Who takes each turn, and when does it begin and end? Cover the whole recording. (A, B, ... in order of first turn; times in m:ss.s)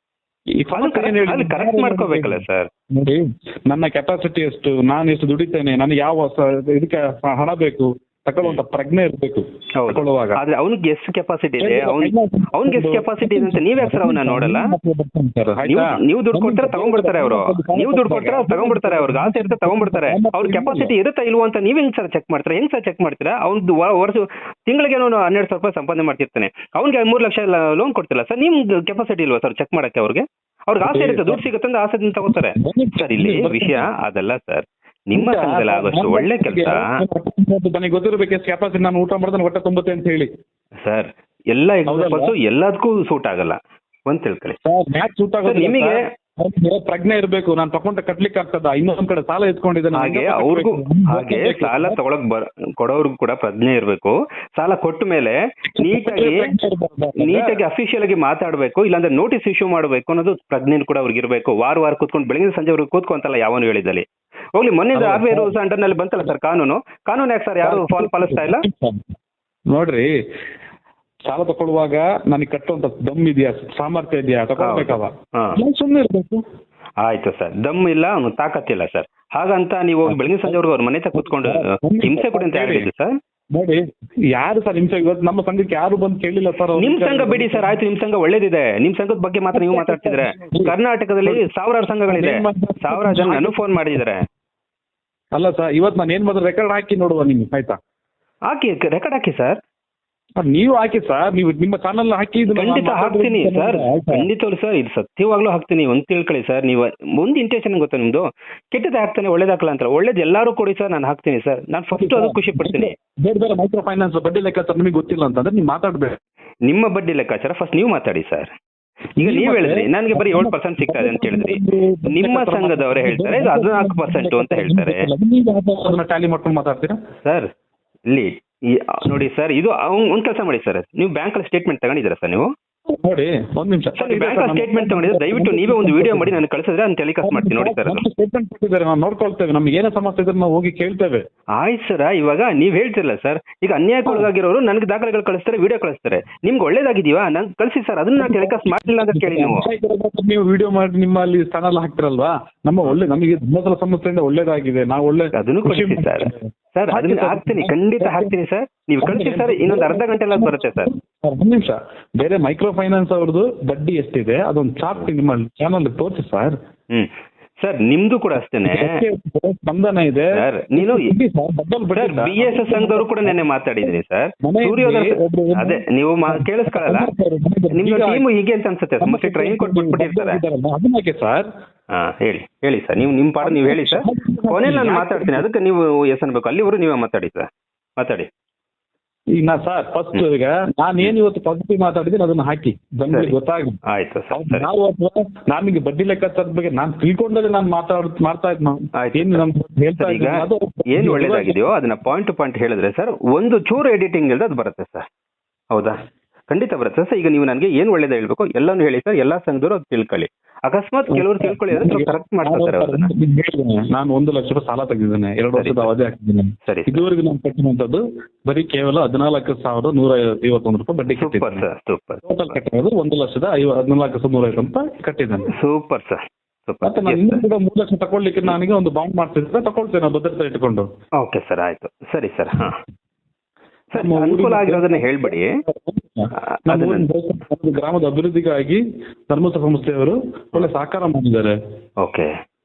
0:00.6-0:10.4 A
0:00.7-0:02.7 B
0:09.8-0:14.7 B
0:11.6-0:20.9 A
0:15.6-0:36.9 B
0:30.8-0:31.4 A
0:32.2-0:33.9 A
0:35.1-0:40.3 A
0:40.8-0:44.6 B
0:41.9-0:42.3 A
0:44.6-0:52.0 A
0:45.4-0:46.0 B
0:49.9-0:56.5 B
0:55.7-0:57.6 A
0:57.2-1:08.7 B
1:04.9-1:05.6 A
1:07.6-1:09.0 A
1:09.7-1:10.1 A
1:11.3-1:16.4 A
1:14.6-1:15.6 B
1:17.0-1:23.2 B
1:20.0-1:20.6 A
1:21.1-1:22.9 A
1:23.5-1:27.8 A
1:26.8-1:34.2 B
1:29.5-1:31.5 A
1:32.0-1:34.0 A
1:35.3-1:37.8 A
1:38.5-1:39.6 B
1:40.4-1:44.3 A
1:42.5-1:52.9 B
1:51.9-1:56.2 A
1:56.6-1:58.5 B
1:59.2-2:05.1 B
1:59.2-2:07.0 A
2:07.2-2:07.5 B
2:08.1-2:12.5 B
2:12.9-2:16.4 A
2:14.0-2:18.0 B
2:17.2-2:21.2 A
2:21.6-2:29.7 B
2:28.2-2:38.3 A
2:35.3-2:40.9 B
2:39.0-2:46.6 A
2:46.9-2:49.0 B
2:48.6-2:53.9 A
2:50.3-2:51.1 B
2:51.9-2:57.1 B
2:54.4-2:58.2 A
2:57.7-3:00.4 B
2:59.0-3:01.5 A
3:01.9-3:08.3 B
3:03.4-3:05.4 A
3:09.3-3:13.8 A
3:13.8-3:14.7 B
3:14.3-3:21.6 A
3:18.9-3:19.4 B
3:20.0-3:25.1 B
3:25.7-3:26.0 B
3:26.5-3:33.1 B
3:31.1-3:41.6 A
3:35.5-3:35.9 B
3:36.6-3:37.0 B
3:41.2-3:42.2 B
3:42.2-3:45.5 A
3:45.5-3:47.4 B
3:46.8-3:50.9 A
3:51.2-3:52.8 B
3:53.9-3:55.5 B
3:53.9-4:01.5 A
3:56.4-3:57.0 B
4:02.0-4:02.4 B